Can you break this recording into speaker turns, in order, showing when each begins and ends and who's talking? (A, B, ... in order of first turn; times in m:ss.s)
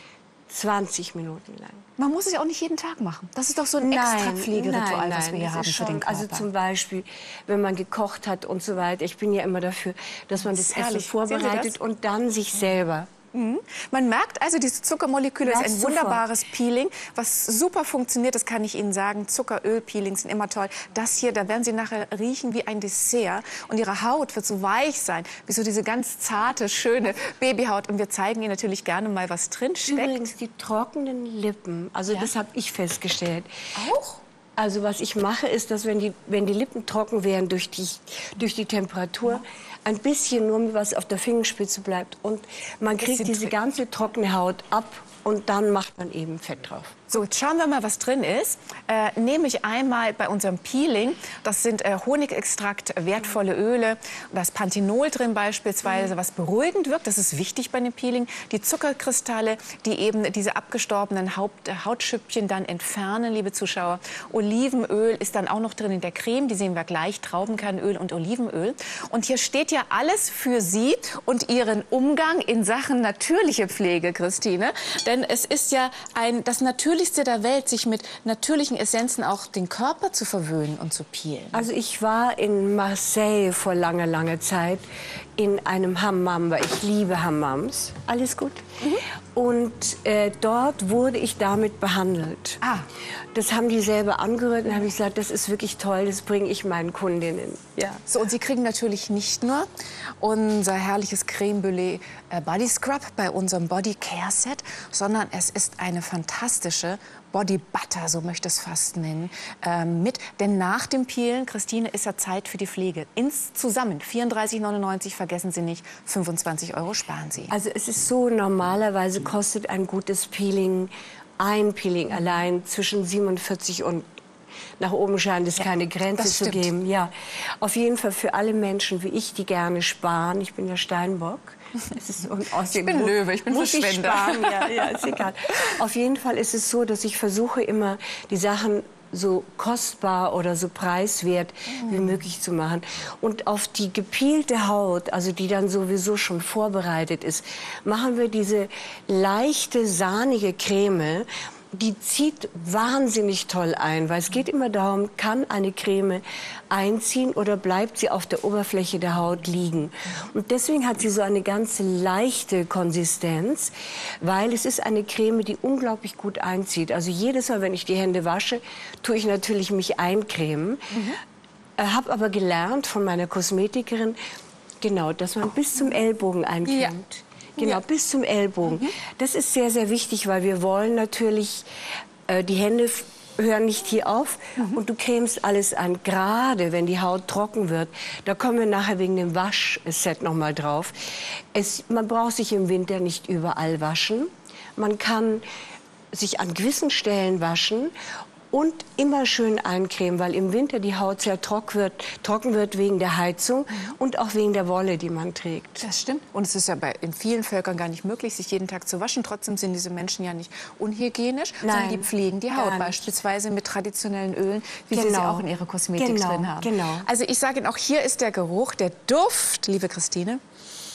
0:00.5-0:01.9 A
0:02.0-0:06.5 B
0:03.8-0:13.1 A
0:10.4-0:11.8 B
0:13.3-0:30.3 B
0:15.4-0:16.2 A
0:29.9-0:33.5 A
0:33.8-0:34.2 B
0:34.6-0:47.1 A
0:43.0-0:43.5 B
0:47.1-1:21.7 B
1:21.5-1:24.8 A
1:25.4-1:28.7 A
1:29.4-1:32.6 A
1:32.6-1:32.9 B
1:33.3-1:38.0 A
1:38.1-1:39.7 B
1:40.2-1:57.5 B
1:57.5-2:04.0 A
2:04.8-2:51.1 A
2:06.2-2:06.7 B
2:12.7-2:15.7 B
2:50.9-2:51.2 B
2:51.8-2:54.2 A
2:54.8-3:01.7 A
2:56.7-2:56.9 B
3:02.3-3:15.4 A
3:16.1-3:17.9 A
3:18.5-3:25.8 A
3:25.8-3:40.4 B
3:31.6-3:33.0 A
3:34.9-3:35.4 A
3:36.0-3:37.1 A